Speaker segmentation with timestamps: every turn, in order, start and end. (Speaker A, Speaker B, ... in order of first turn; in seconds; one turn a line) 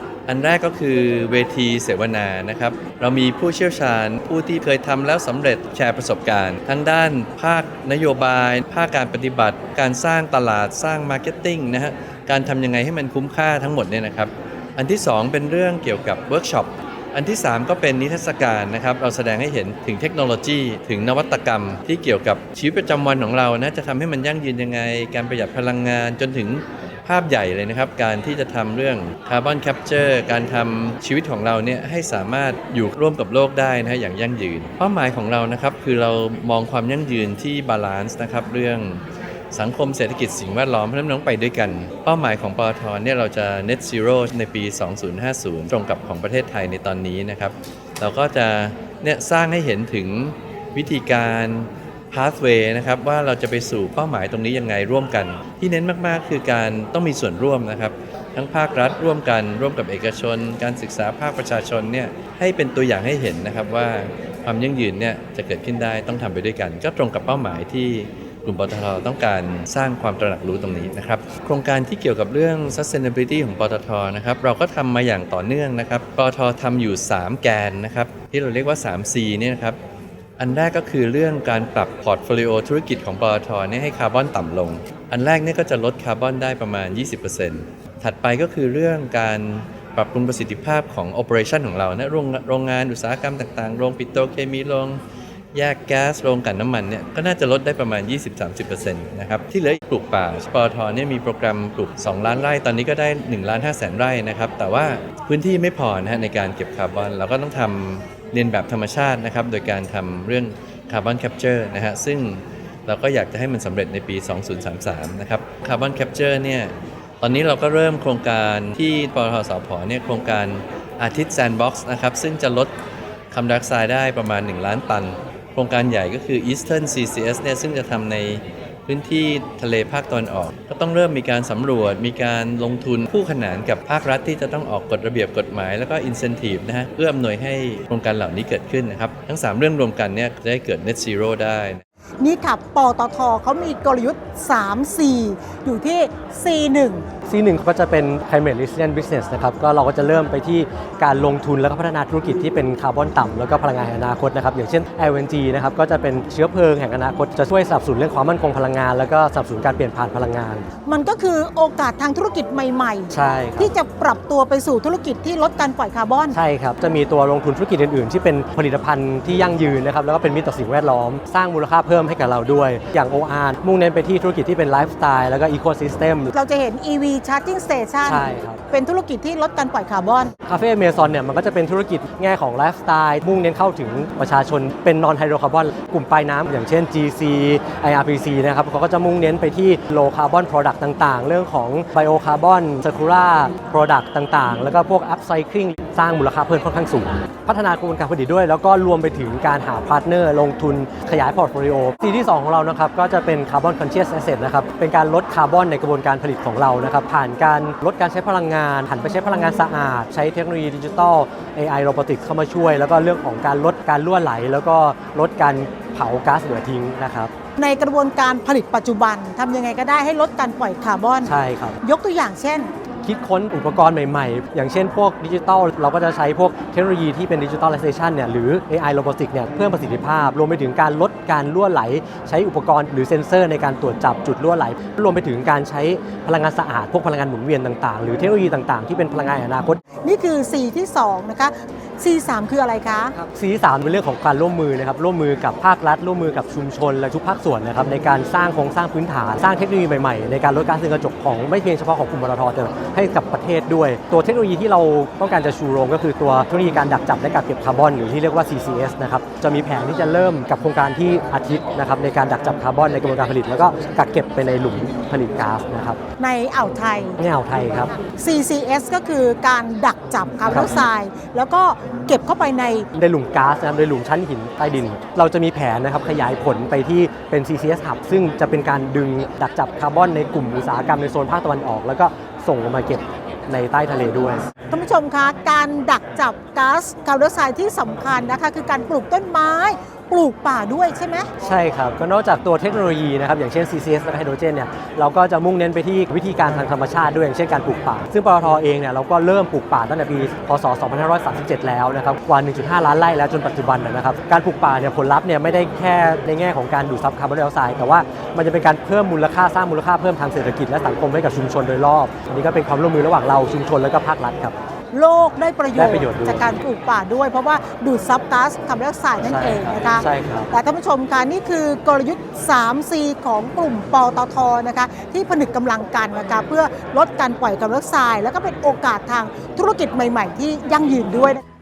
Speaker A: 0.3-79.8
Speaker A: 80.4-95.0
Speaker A: 95.5-122.7
Speaker A: 123.3-141.8
Speaker B: 142.2-147.1
Speaker C: 147.3-160.7
Speaker B: 160.9-163.1
Speaker C: 163.1-163.8
Speaker B: 163.6-166.3
Speaker C: 166.3-176.3
Speaker B: 176.3-180.3
Speaker C: 178.1-178.6
Speaker C: 180.4-217.3
Speaker B: 217.6-222.7
Speaker C: 221.2-221.8
Speaker C: 223.0-239.8
Speaker B: 240.0-243.1
Speaker C: 243.2-266.0
Speaker B: 266.2-267.2
Speaker C: 267.2-268.0
Speaker B: 268.1-272.9
Speaker C: 270.5-270.9
Speaker C: 273.0-284.5
Speaker B: 284.7-291.3
Speaker C: 291.4-314.6
Speaker B: 314.9-331.4
Speaker C: 315.7-316.5
Speaker C: 319.2-320.5